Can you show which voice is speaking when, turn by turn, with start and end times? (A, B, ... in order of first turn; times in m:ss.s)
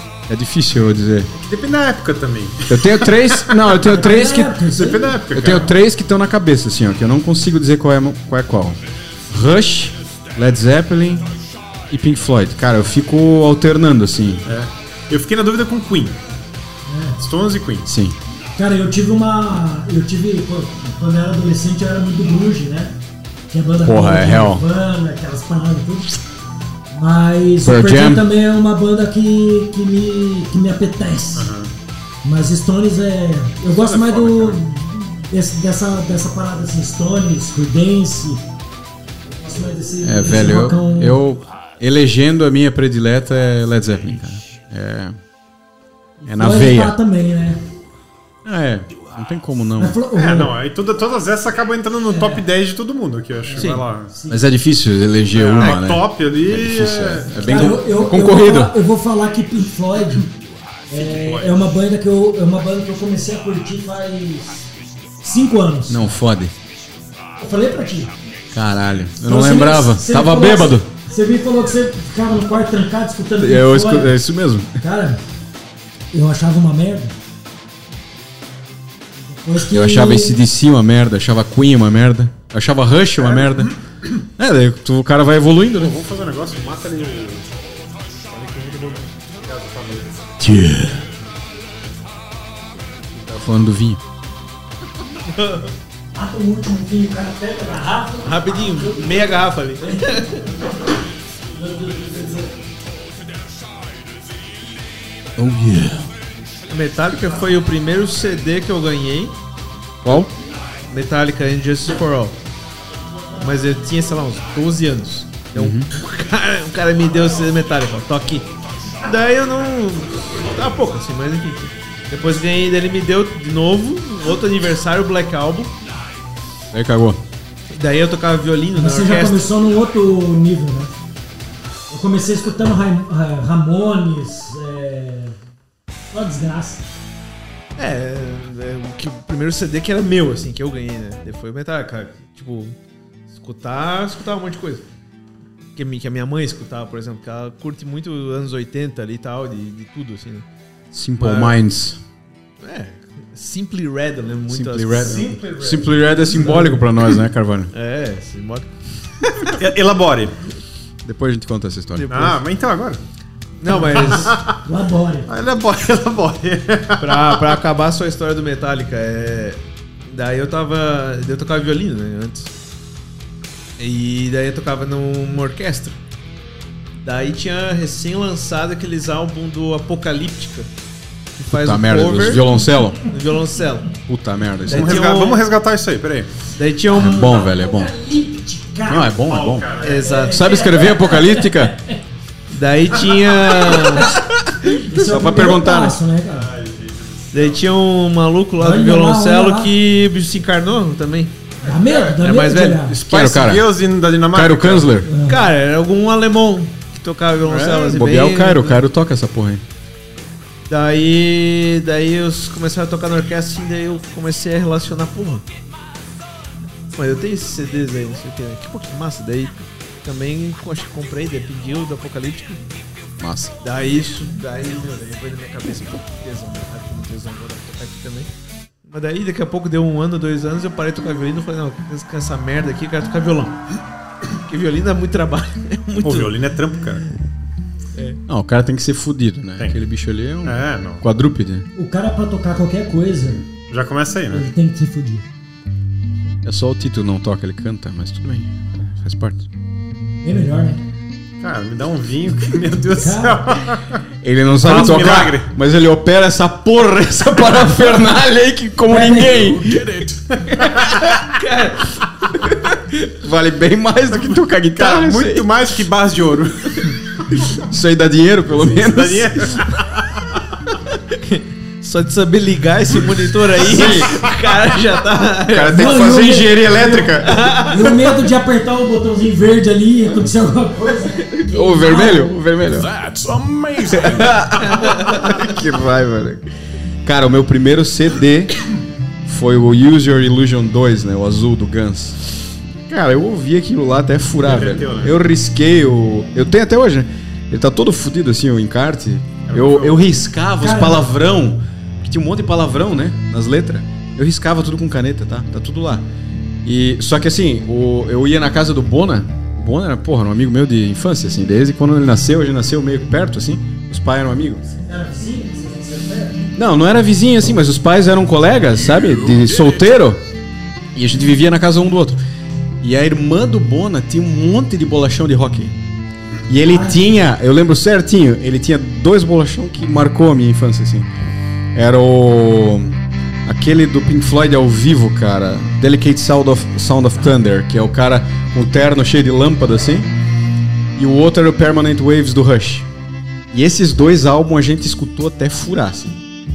0:00.3-0:01.3 A
0:01.3-0:03.8 B
0:02.7-0:08.8 A
0:03.8-0:05.2 C
0:04.7-0:05.7 B
0:09.3-0:11.3 A
0:11.9-0:14.5 A
0:14.4-0:16.2 B
0:16.8-0:17.2 C
0:17.2-0:17.9 B
0:17.8-0:18.2 A
0:18.5-0:22.9 C
0:23.5-0:26.2 C
0:23.8-0:24.6 A
0:26.9-0:31.5 C
0:27.6-0:28.2 A
0:31.4-0:31.7 B
0:32.2-0:38.4 C
0:33.7-0:34.6 B
0:39.3-0:41.2 C
0:40.0-0:45.2 A
0:46.2-0:47.6 C
0:46.3-0:46.9 A
0:48.4-0:50.0 A
0:49.8-0:50.5 C
0:50.1-0:54.1 B
0:52.1-0:52.4 C
0:53.5-0:54.4 C
0:53.6-0:53.8 D
0:54.3-0:58.8 A
0:55.3-0:57.8 B
0:57.4-1:00.3 C
1:00.9-1:04.7 C
1:00.9-1:01.5 B
1:05.2-1:06.1 C
1:05.9-1:06.5 A
1:07.4-1:08.1 C
1:08.5-1:10.9 A
1:09.2-1:14.2 C
1:13.4-1:14.8 A
1:14.8-1:15.2 C
1:16.1-1:17.1 C
1:19.2-1:20.4 C
1:19.6-1:23.7 A
1:23.2-1:23.7 B
1:24.4-1:26.0 A
1:25.8-1:27.5 B
1:28.3-1:30.3 B
1:30.4-1:31.0 A
1:33.3-1:34.0 A
1:35.3-1:35.7 D
1:36.2-1:39.3 C
1:38.2-1:40.5 D
1:39.8-1:40.5 C
1:41.4-1:42.6 C
1:45.4-1:46.1 A
1:46.7-1:49.4 D
1:50.0-1:50.3 A
1:50.9-1:52.4 D
1:53.4-1:58.5 D
1:55.5-1:55.9 A
1:59.0-2:05.7 D
2:06.7-2:07.2 A
2:07.7-2:09.5 D
2:08.8-2:11.0 C
2:11.9-2:15.4 C
2:16.1-2:16.9 C
2:17.8-2:22.8 D
2:23.3-2:24.8 D
2:25.7-2:30.4 D
2:30.9-2:32.0 A
2:31.2-2:31.6 D
2:32.6-2:35.3 D
2:34.5-2:37.7 A
2:35.0-2:36.6 B
2:37.7-2:38.7 D
2:39.4-2:40.4 B
2:41.0-2:42.3 A
2:42.0-2:42.4 D
2:42.1-2:43.0 B
2:43.6-2:44.4 D
2:43.8-2:44.6 B
2:43.8-2:45.3 C
2:45.3-2:47.5 B
2:47.0-2:52.5 D
2:53.8-2:56.0 D
2:57.0-3:00.7 D
3:01.4-3:03.1 A
3:01.4-3:02.5 D
3:03.0-3:03.9 D
3:04.1-3:05.1 A
3:04.6-3:05.4 D
3:04.7-3:06.3 B
3:06.6-3:07.5 D
3:06.9-3:07.9 A
3:07.4-3:09.2 C
3:08.9-3:09.7 A
3:09.1-3:10.1 B
3:09.8-3:10.5 D
3:10.0-3:12.0 C
3:10.3-3:11.8 A
3:12.5-3:14.8 D
3:13.0-3:13.8 B
3:14.9-3:16.5 C
3:14.9-3:16.0 A
3:16.3-3:17.6 B
3:17.3-3:21.3 D
3:18.6-3:19.7 C
3:21.6-3:22.1 B
3:21.6-3:23.0 C
3:22.1-3:22.8 D
3:22.8-3:23.7 A
3:23.0-3:25.0 B
3:24.3-3:25.1 A
3:25.0-3:25.4 C
3:25.2-3:28.8 D
3:27.4-3:29.6 A
3:30.7-3:35.4 D
3:36.9-3:42.6 D
3:43.2-3:43.5 A
3:43.6-3:48.3 D
3:48.8-3:53.6 D
3:54.3-3:56.4 D
3:56.0-3:57.0 B
3:57.9-3:58.2 D
3:58.3-4:01.7 A
4:00.4-4:01.0 B
4:01.7-4:03.4 C
4:03.7-4:04.4 B
4:04.3-4:05.2 C
4:06.4-4:09.5 A
4:10.2-4:10.8 C
4:11.4-4:14.0 B
4:12.9-4:13.4 C
4:14.2-4:19.8 A
4:14.6-4:15.5 B
4:18.9-4:19.4 C
4:19.2-4:20.2 E
4:20.3-4:20.9 B
4:20.6-4:20.9 A
4:21.2-4:22.0 D
4:22.4-4:25.5 A
4:24.1-4:26.9 B
4:27.5-4:29.6 A
4:28.6-4:30.2 B
4:31.2-4:36.0 D
4:33.5-4:34.2 A
4:35.4-4:37.9 A
4:35.6-4:42.4 C
4:37.2-4:38.0 D
4:41.5-4:42.9 A
4:42.6-4:44.5 E
4:44.1-4:46.5 A
4:44.5-4:45.4 D
4:47.0-4:48.5 A
4:49.2-5:06.0 A
4:54.4-4:55.2 B
4:59.5-5:00.0 B
5:00.6-5:01.1 C
5:06.6-5:14.6 A
5:14.6-5:16.4 C
5:16.5-5:20.2 A
5:19.0-5:19.8 E
5:20.9-5:22.2 A
5:22.8-5:25.7 A
5:26.5-5:31.1 A
5:26.6-5:27.0 C
5:31.7-5:40.1 A
5:41.0-5:42.9 A
5:43.5-5:46.2 A